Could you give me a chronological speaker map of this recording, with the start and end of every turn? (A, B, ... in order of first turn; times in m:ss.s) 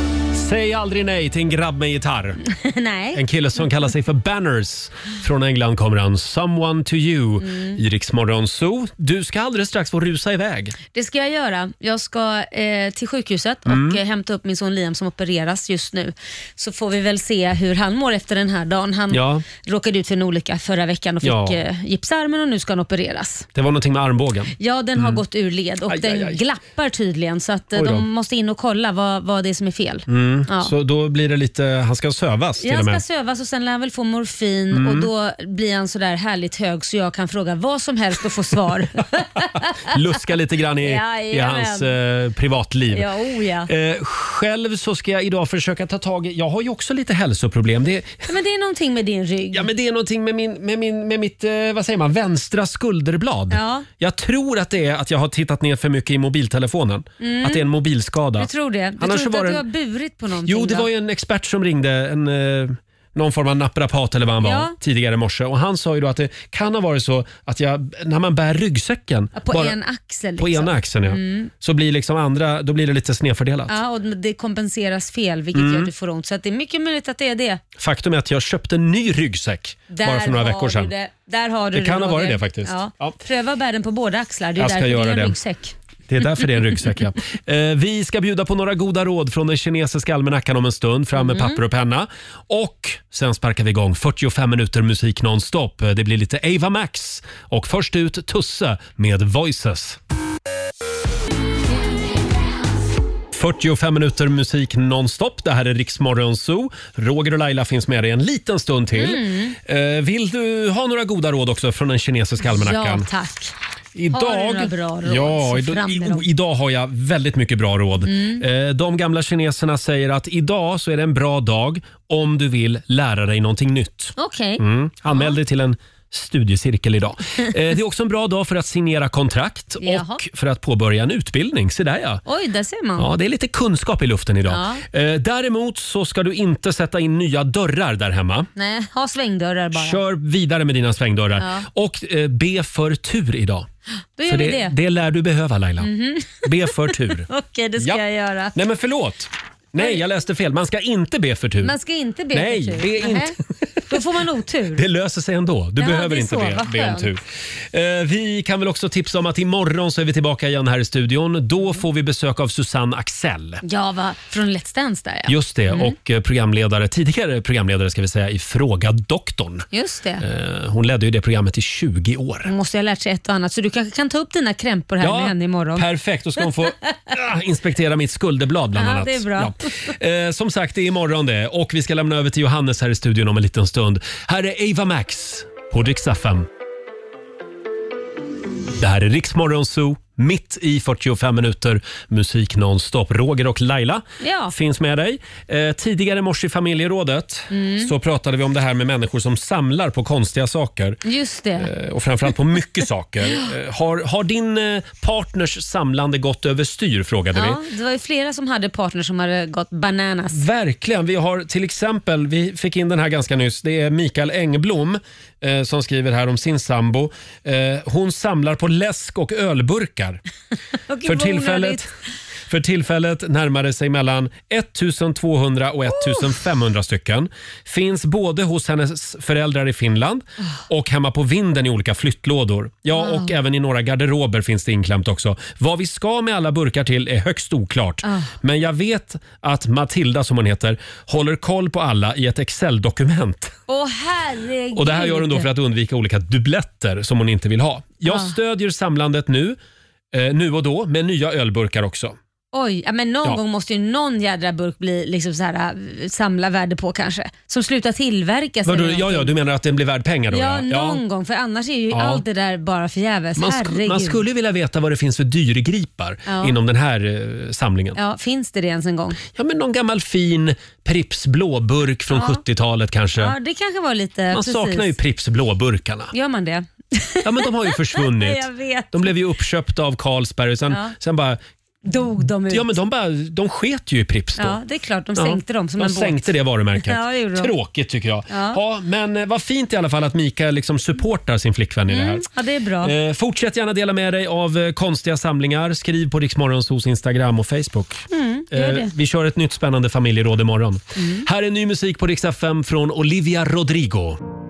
0:00.3-0:02.4 A
0:02.5-0:03.2 B
0:03.1-0:10.8 A
0:07.4-0:07.8 B
0:10.9-0:23.5 B
0:13.7-0:14.0 A
0:19.1-0:19.4 A
0:21.2-0:21.6 A
0:23.5-0:25.2 A
0:24.6-0:30.7 B
0:25.9-0:26.4 A
0:27.7-0:28.1 A
0:30.1-0:33.0 A
0:32.6-0:39.9 B
0:34.7-0:35.1 A
0:39.8-0:43.1 A
0:40.8-0:41.9 B
0:42.9-0:43.7 B
0:43.7-0:48.3 A
0:48.3-0:49.7 B
0:49.5-0:59.6 A
0:53.5-0:53.9 B
0:57.2-0:57.6 B
0:58.4-1:00.9 B
1:00.4-1:09.8 A
1:04.4-1:04.8 B
1:09.4-1:11.5 B
1:10.4-1:13.8 A
1:13.7-1:17.6 B
1:15.5-1:15.9 A
1:17.8-1:20.9 A
1:19.9-1:25.7 B
1:21.7-1:23.2 A
1:24.6-1:25.4 A
1:26.1-1:40.0 A
1:31.2-1:31.6 B
1:43.3-1:53.1 A
1:48.9-1:49.6 B
1:52.4-1:53.5 B
1:54.0-2:12.2 A
1:54.1-1:56.2 B
1:58.0-1:58.4 B
2:04.2-2:05.4 B
2:09.8-2:10.2 B
2:12.2-2:13.1 B
2:13.0-2:18.5 A
2:14.5-2:14.8 B
2:18.6-2:20.0 B
2:19.7-2:23.7 A
2:21.4-2:21.7 B
2:24.2-2:24.8 B
2:24.3-2:27.3 A
2:25.8-2:28.6 B
2:28.5-2:31.7 A
2:31.6-2:33.4 B
2:32.3-2:34.0 A
2:33.9-2:34.8 B
2:34.7-2:43.6 A
2:35.8-2:37.1 B
2:43.6-2:46.0 B
2:45.3-2:49.6 A
2:49.7-2:50.2 B
2:50.2-2:52.5 A
2:52.4-2:55.9 B
2:55.0-3:06.5 A
2:56.4-2:56.9 B
2:58.7-2:59.5 B
3:08.8-3:21.0 A
3:14.2-3:14.5 B
3:17.5-3:17.9 B
3:21.0-3:21.7 B
3:21.6-3:27.6 A
3:27.3-3:30.4 B
3:30.3-3:40.2 A
3:40.9-3:41.9 B
3:41.0-3:41.9 A
3:42.5-4:03.6 A
3:45.9-3:46.3 B
3:53.0-3:53.3 B
3:58.0-3:58.3 B
4:03.7-4:05.5 B
4:04.7-4:09.6 A
4:08.0-4:08.3 B
4:10.1-4:12.2 A
4:12.5-4:19.3 B
4:18.6-4:21.0 A
4:20.3-4:24.2 B
4:21.9-4:22.2 A
4:23.4-4:28.0 A
4:26.2-4:26.5 B
4:28.0-4:29.2 B
4:29.3-4:33.4 A
4:32.1-4:32.4 B
4:33.2-4:34.9 B
4:34.3-4:36.1 A
4:36.1-4:39.1 B
4:37.2-4:41.4 A
4:40.7-4:40.9 B
4:41.8-4:42.7 B
4:42.5-4:44.6 A
4:44.4-4:47.5 B
4:45.2-4:52.2 A
4:48.3-4:48.6 B
4:51.9-4:52.9 B
4:52.8-5:04.2 A
4:58.1-4:58.9 B
5:01.0-5:01.2 B